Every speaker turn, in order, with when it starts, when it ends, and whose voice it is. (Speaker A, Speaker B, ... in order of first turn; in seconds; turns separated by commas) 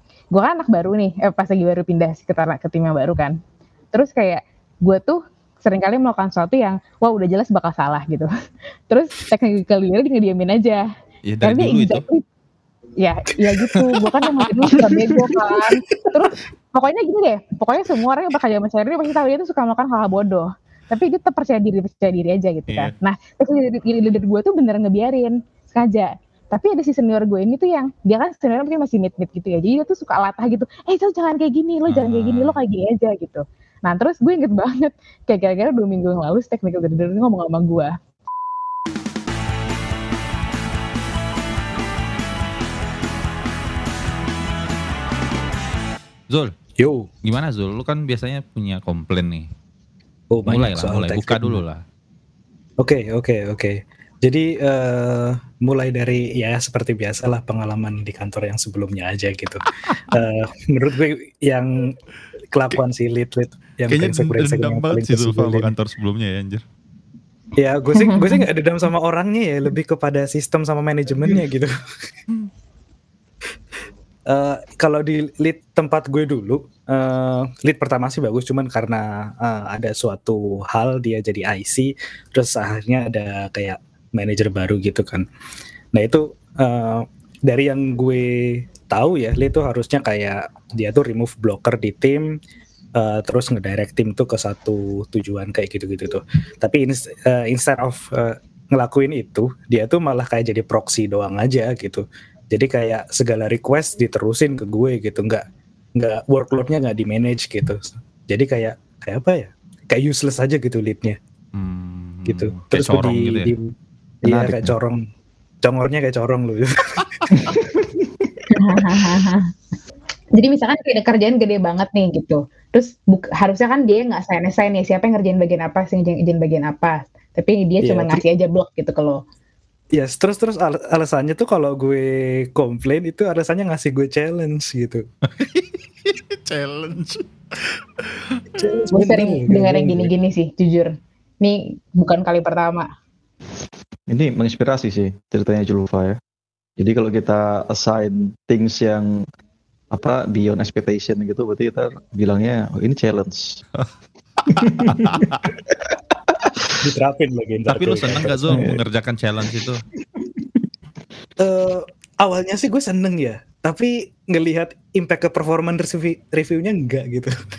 Speaker A: 0.3-3.4, Speaker A: 3.9-8.3, Speaker A: 8.9-10.9, Speaker B: 11.3-12.0, Speaker A: 11.4-12.2, Speaker A: 13.0-37.9, Speaker C: 14.7-16.1, Speaker B: 31.9-32.6, Speaker C: 46.8-47.1, Speaker B: 47.2-49.5, Speaker C: 50.3-51.6, Speaker B: 50.5-51.8, Speaker C: 52.8-62.0, Speaker C: 62.5-65.7, Speaker B: 63.9-66.6, Speaker C: 67.6-72.1, Speaker A: 67.9-68.4, Speaker C: 74.3-85.2, Speaker C: 85.9-92.3, Speaker C: 93.0-105.4, Speaker C: 106.0-111.2, Speaker B: 111.5-113.5, Speaker C: 112.2-113.7, Speaker D: 114.2-114.7, Speaker C: 114.2-115.0, Speaker C: 115.6-117.7, Speaker D: 117.3-117.6, Speaker A: 118.5-119.5, Speaker A: 120.3-129.2, Speaker C: 127.8-128.2, Speaker C: 129.9-135.1, Speaker B: 135.3-138.6, Speaker C: 138.6-140.1, Speaker A: 138.9-142.9, Speaker D: 144.1-146.2, Speaker D: 146.8-149.2, Speaker D: 149.9-153.6, Speaker B: 154.4-155.5, Speaker D: 154.6-156.8, Speaker C: 156.8-158.7, Speaker B: 157.7-159.8, Speaker D: 158.5-158.8, Speaker D: 160.1-160.6, Speaker C: 161.4-167.3